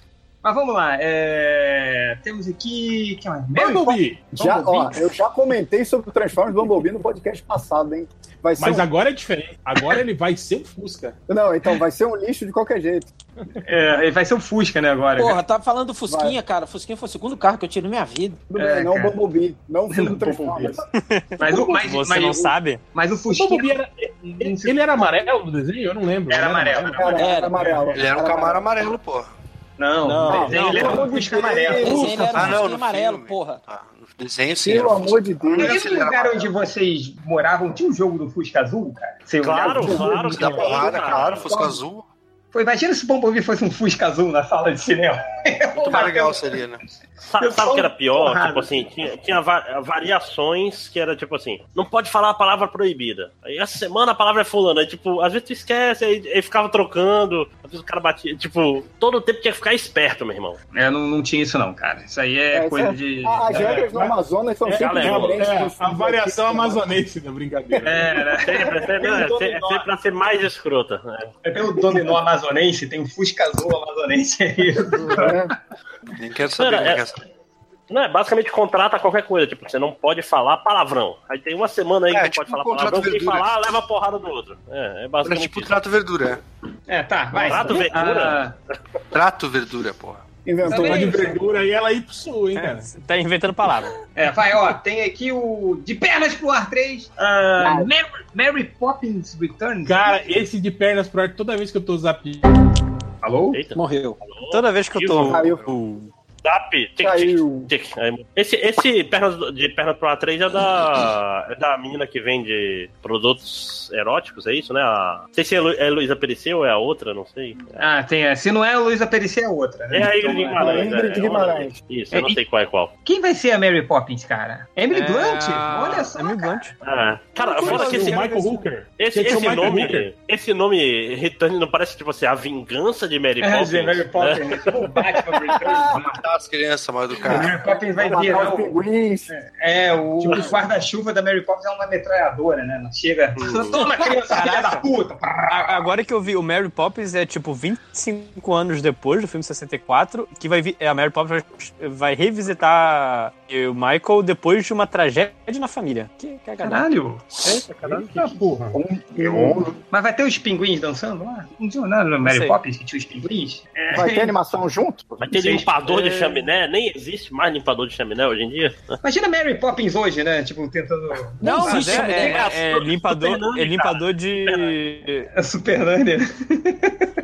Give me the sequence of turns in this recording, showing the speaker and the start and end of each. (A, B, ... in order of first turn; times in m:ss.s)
0:00.4-0:05.1 A
0:03.5-0:04.8 B
0:04.4-0:08.9 C
0:08.6-0:11.2 B
0:11.3-0:13.1 C
0:13.6-0:15.4 A
0:15.2-0:18.4 D
0:16.1-0:16.4 C
0:18.5-0:20.8 C
0:18.6-0:19.2 A
0:19.9-0:20.8 A
0:21.0-0:22.8 E
0:21.4-0:23.7 A
0:23.3-0:27.2 B
0:24.2-0:25.1 A
0:26.3-0:28.0 A
0:27.0-0:28.6 C
0:27.2-0:27.5 D
0:27.9-0:29.3 F
0:29.8-0:32.2 A
0:30.0-0:31.1 E
0:30.3-0:32.1 C
0:31.8-0:33.6 D
0:31.9-0:32.6 B
0:32.3-0:36.5 F
0:34.6-0:35.8 C
0:35.5-0:40.0 A
0:39.4-0:41.5 G
0:39.8-0:41.8 C
0:40.2-0:42.0 F
0:42.5-0:46.5 A
0:45.8-0:46.8 F
0:47.2-1:00.6 G
0:47.4-0:48.9 A
1:00.7-1:03.9 A
1:02.5-1:06.9 C
1:03.5-1:08.4 B
1:04.7-1:05.4 G
1:07.8-1:09.9 A
1:08.4-1:11.3 G
1:11.4-1:15.5 A
1:15.1-1:15.5 C
1:16.2-1:17.2 F
1:16.6-1:17.0 G
1:17.9-1:25.7 G
1:22.1-1:23.5 F
1:25.2-1:26.4 F
1:26.9-1:28.5 A
1:27.4-1:28.4 G
1:29.1-1:30.2 F
1:30.4-1:31.3 C
1:30.6-1:31.4 A
1:30.7-1:32.9 B
1:32.5-1:34.0 E
1:34.1-1:40.1 A
1:37.6-1:37.9 C
1:39.8-1:42.5 B
1:43.2-1:43.6 A
1:43.5-1:45.5 G
1:43.7-1:44.2 D
1:44.5-1:46.1 E
1:45.3-1:45.6 C
1:46.4-1:57.8 G
1:47.0-1:47.7 C
1:57.8-2:00.9 A
1:59.9-2:02.9 G
2:00.5-2:01.8 C
2:02.1-2:02.4 A
2:03.0-2:06.7 A
2:04.9-2:06.7 E
2:06.8-2:08.3 G
2:07.5-2:08.6 E
2:07.6-2:10.1 B
2:09.0-2:14.8 G
2:13.4-2:16.2 A
2:15.6-2:15.9 C
2:15.9-2:17.6 F
2:17.2-2:18.8 A
2:17.3-2:19.3 C
2:19.3-2:25.9 A
2:20.2-2:20.6 B
2:20.3-2:20.5 G
2:23.4-2:23.8 G
2:24.2-2:24.9 E
2:25.5-2:36.8 E
2:36.6-2:38.5 A
2:37.4-2:38.8 B
2:38.7-2:39.8 C
2:39.2-2:44.3 A
2:42.2-2:42.6 E
2:43.9-2:45.2 C
2:45.2-2:49.0 G
2:45.3-2:46.4 A
2:49.0-2:52.6 A
2:51.4-2:52.5 D
2:51.4-2:55.3 E
2:52.2-2:54.8 G
2:55.3-2:57.1 A